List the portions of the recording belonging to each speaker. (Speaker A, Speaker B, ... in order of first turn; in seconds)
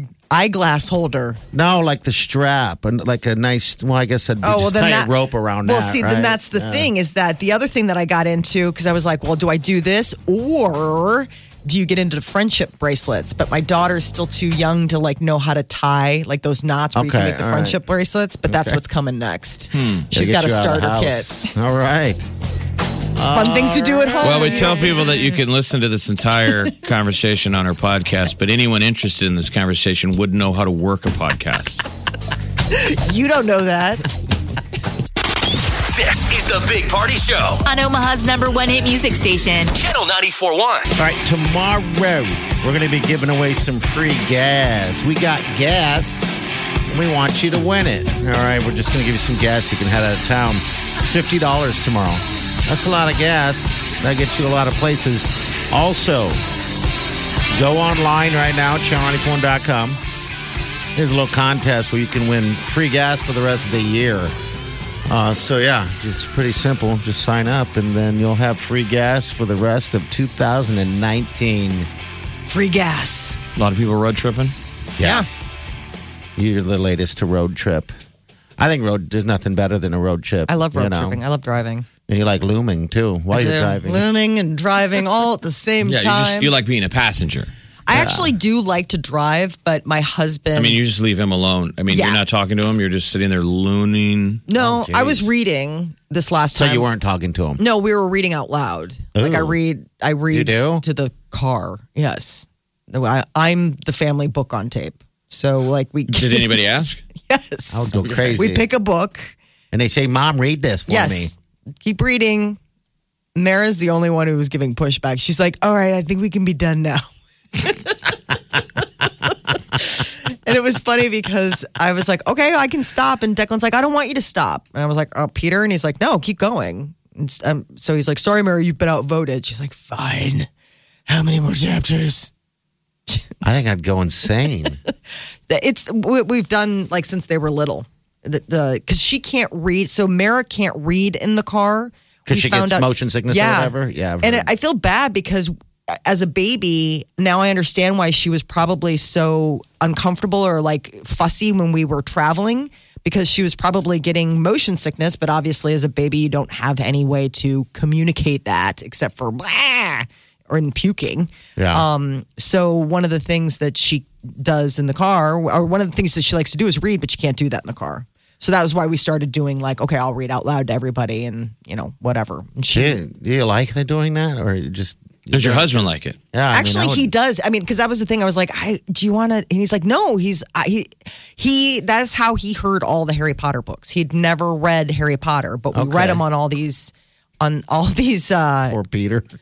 Speaker A: 0.3-1.4, 4.4-21.5, 23.3-25.0, 32.7-34.1, 72.5-73.4, 75.0-75.3, 80.5-81.9, 83.3-86.5, 87.9-90.8, 91.9-92.2, 94.5-96.9, 97.6-106.6, 107.2-109.3, 110.9-112.6, 113.3-117.0, 117.6-118.0, 119.8-130.5, 131.1-132.3, 133.1-133.7, 135.5-173.0, 176.5-188.8
Speaker B: 1.5-6.9, 16.9-17.8, 18.5-18.8, 20.1-22.3, 23.2-25.0, 41.0-46.3, 46.9-56.4, 57.5-60.0, 61.0-64.3, 65.1-71.9, 75.0-75.3, 76.4-77.9, 78.6-81.2, 82.1-84.1, 87.9-88.3, 94.5-95.3, 96.5-97.6, 99.2-99.6, 100.3-100.8, 107.7-108.7, 109.7-111.3, 133.4-134.8, 142.3-144.5, 161.6-161.8, 172.7-177.1, 185.7-186.2, 188.7-189.2
Speaker C: 19.7-20.1, 24.2-31.8, 73.6-74.5, 85.8-87.5, 90.5-94.4, 106.1-107.0, 175.3-176.2
Speaker D: 35.9-37.7, 39.7-40.9
Speaker E: 37.7-39.7